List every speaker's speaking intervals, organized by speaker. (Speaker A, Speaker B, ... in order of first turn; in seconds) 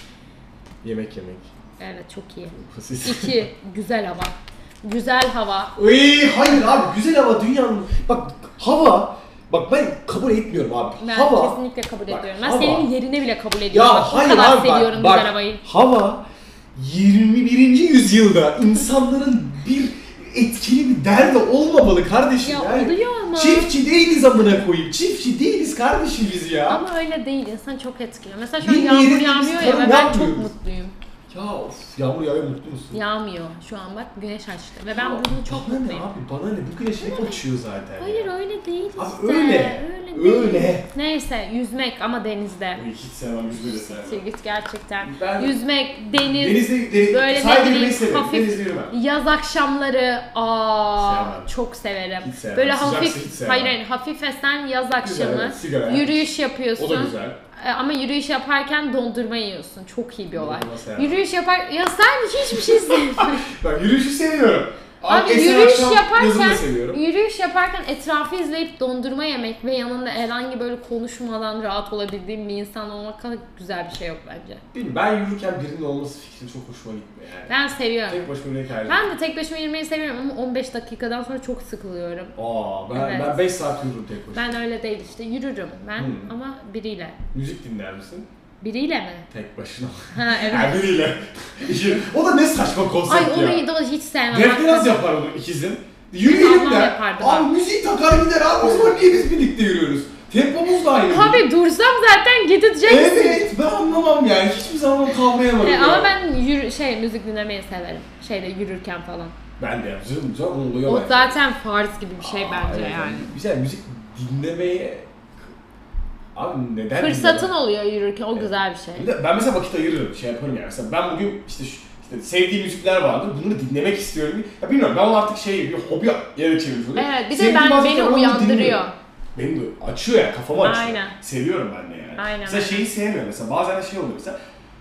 Speaker A: 0.8-1.5, 2.6-3.4, 5.8-12.9, 13.7-26.8, 28.6-30.5, 31.3-33.0, 34.9-38.3, 39.0-40.9, 42.7-44.2, 45.0-45.5, 46.1-49.0, 51.0-51.5, 52.2-53.7, 55.0-57.4, 60.3-61.2, 62.5-67.0, 74.7-77.5, 78.1-79.1, 82.4-84.5, 86.0-86.3, 87.3-88.3, 89.3-93.6, 94.3-101.4, 102.8-106.1, 109.6-111.3, 112.2-115.1, 116.3-117.5, 118.3-128.8, 129.3-134.4
Speaker B: 1.8-5.8, 11.0-15.6, 22.4-23.7, 26.7-31.0, 32.9-36.1, 37.0-37.4, 38.0-42.8, 43.6-63.4, 65.1-74.6, 77.5-78.3, 78.8-82.3, 82.9-83.5, 84.3-87.2, 88.6-89.3, 90.1-91.0, 93.1-95.1, 96.2-97.5, 101.1-103.5, 105.6-109.4, 110.8-113.3, 117.0-119.1, 127.0-128.9, 130.6-131.2, 132.2-132.9